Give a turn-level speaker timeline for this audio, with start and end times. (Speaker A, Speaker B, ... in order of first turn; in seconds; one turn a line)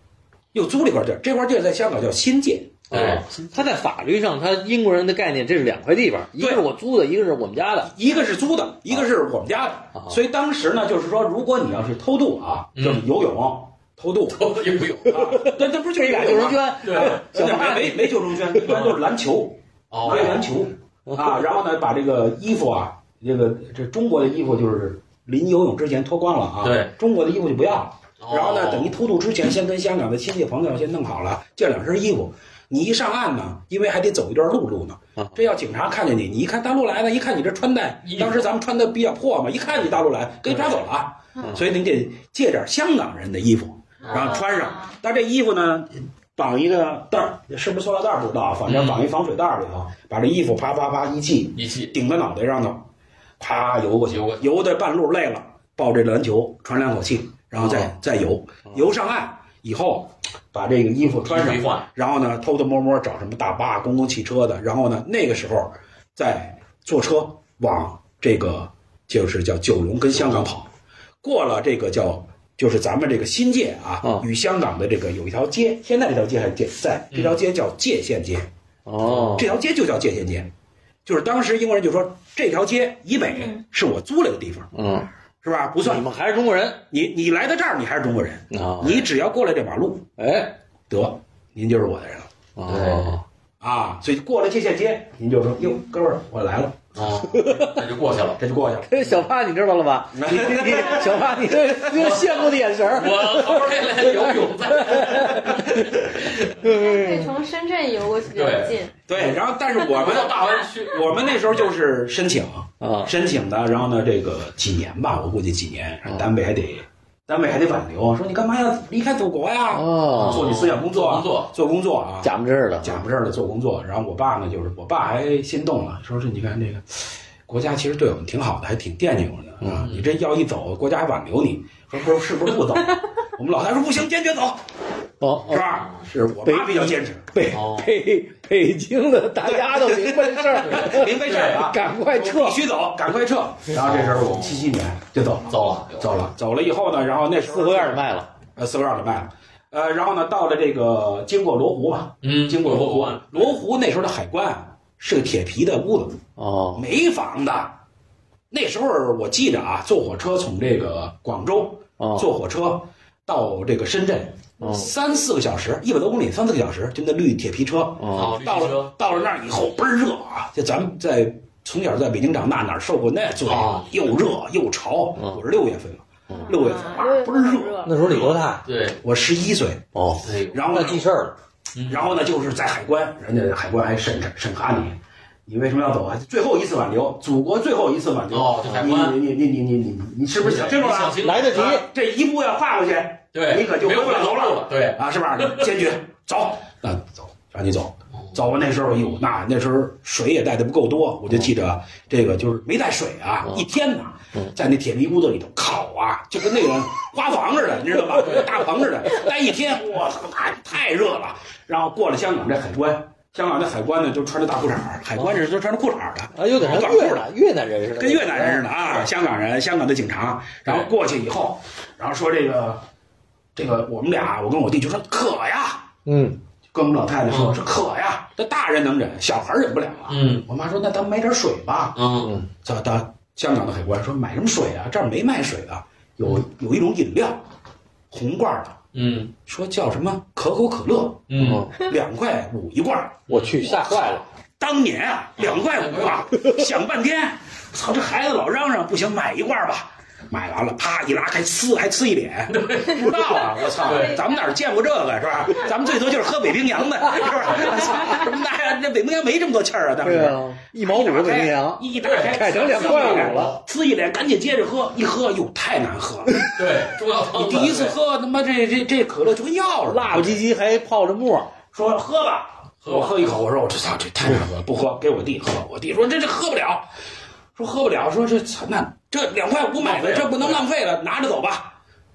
Speaker A: 0.5-2.8
Speaker B: 2.9-7.9
Speaker C: 2.9-3.2
Speaker A: 6.4-6.7
Speaker A: 7.9-14.5
Speaker C: 12.8-13.1
Speaker C: 14.3-15.4
Speaker B: 15.1-18.9
Speaker A: 15.1-52.9
Speaker C: 16.8-17.2
Speaker C: 18.7-19.0
Speaker C: 19.9-20.6
Speaker B: 20.1-20.4
Speaker B: 21.1-21.5
Speaker C: 26.6-26.9
Speaker C: 28.2-28.9
Speaker C: 38.0-38.4
Speaker B: 41.4-41.6
Speaker D: 44.0-44.9
Speaker C: 44.1-44.4
Speaker C: 48.7-49.1
Speaker C: 51.5-52.0
Speaker A: 53.4-70.7
Speaker C: 54.1-54.5
Speaker B: 57.6-57.9
Speaker C: 61.2-61.9
Speaker C: 70.2-70.5
Speaker A: 71.2-78.5
Speaker C: 77.1-77.4
Speaker B: 78.9-79.5
Speaker C: 79.0-79.4
Speaker A: 79.3-80.5
Speaker A: 81.0-84.7
Speaker B: 84.7-85.1
Speaker A: 85.4-86.1
Speaker B: 85.8-86.8
Speaker A: 86.9-90.1
Speaker B: 88.5-89.1
Speaker B: 90.2-90.5
Speaker A: 90.9-92.3
Speaker B: 92.6-93.2
Speaker C: 92.7-93.2
Speaker A: 93.6-97.0
Speaker C: 97.0-98.4
Speaker B: 97.3-97.8
Speaker A: 98.4-99.2
Speaker B: 98.9-107.3
Speaker A: 100.1-101.6
Speaker C: 101.9-106.5
Speaker D: 106.6-108.9
Speaker C: 108.3-111.6
Speaker A: 109.1-134.6
Speaker B: 112.8-113.1
Speaker B: 119.7-120.5
Speaker C: 120.1-121.5
Speaker B: 122.2-123.0
Speaker B: 129.6-129.9
Speaker C: 129.8-130.1
Speaker B: 135.2-135.7
Speaker A: 135.4-137.3
Speaker C: 135.6-136.0
Speaker B: 136.4-142.6
Speaker C: 137.5-137.9
Speaker A: 139.4-148.0
Speaker C: 140.6-141.7
Speaker C: 143.7-144.7
Speaker C: 145.5-146.2
Speaker B: 147.4-148.3
Speaker A: 148.6-156.2
Speaker C: 152.2-153.6
Speaker B: 156.4-156.9
Speaker A: 156.8-157.8
Speaker A: 158.5-178.2
Speaker B: 162.0-162.3
Speaker B: 164.6-164.9
Speaker D: 164.6-164.9
Speaker B: 168.0-168.3
Speaker C: 168.1-169.3
Speaker C: 173.5-173.9
Speaker B: 176.3-176.6
Speaker D: 176.3-178.2
Speaker B: 177.8-178.7
Speaker C: 178.0-179.0
Speaker A: 179.0-179.9
Speaker B: 179.9-181.3
Speaker C: 180.2-180.6
Speaker A: 180.5-181.1
Speaker C: 181.8-182.1
Speaker A: 181.9-217.3
Speaker C: 188.3-189.2
Speaker C: 190.4-191.8
Speaker B: 191.2-191.9
Speaker C: 193.3-195.7
Speaker C: 208.2-208.6
Speaker B: 216.3-218.7
Speaker A: 217.9-222.8
Speaker C: 220.7-220.9
Speaker A: 223.6-225.9
Speaker B: 226.1-226.4
Speaker A: 226.7-232.0
Speaker C: 227.3-227.6
Speaker C: 230.1-230.4
Speaker C: 231.9-232.3
Speaker B: 232.2-232.5
Speaker A: 232.6-237.4
Speaker A: 238.1-238.8
Speaker C: 238.9-239.3
Speaker A: 239.5-266.6
Speaker C: 241.3-241.7
Speaker B: 241.4-241.8
Speaker C: 243.3-243.7
Speaker B: 243.3-244.2
Speaker C: 245.4-246.3
Speaker C: 252.5-254.2
Speaker D: 253.9-254.2
Speaker C: 257.2-258.0
Speaker B: 260.0-263.5
Speaker C: 262.0-263.6
Speaker C: 266.6-268.0
Speaker A: 267.3-270.4
Speaker B: 269.9-271.5
Speaker A: 271.7-276.9
Speaker C: 272.8-273.4
Speaker A: 277.6-281.8
Speaker C: 279.8-280.6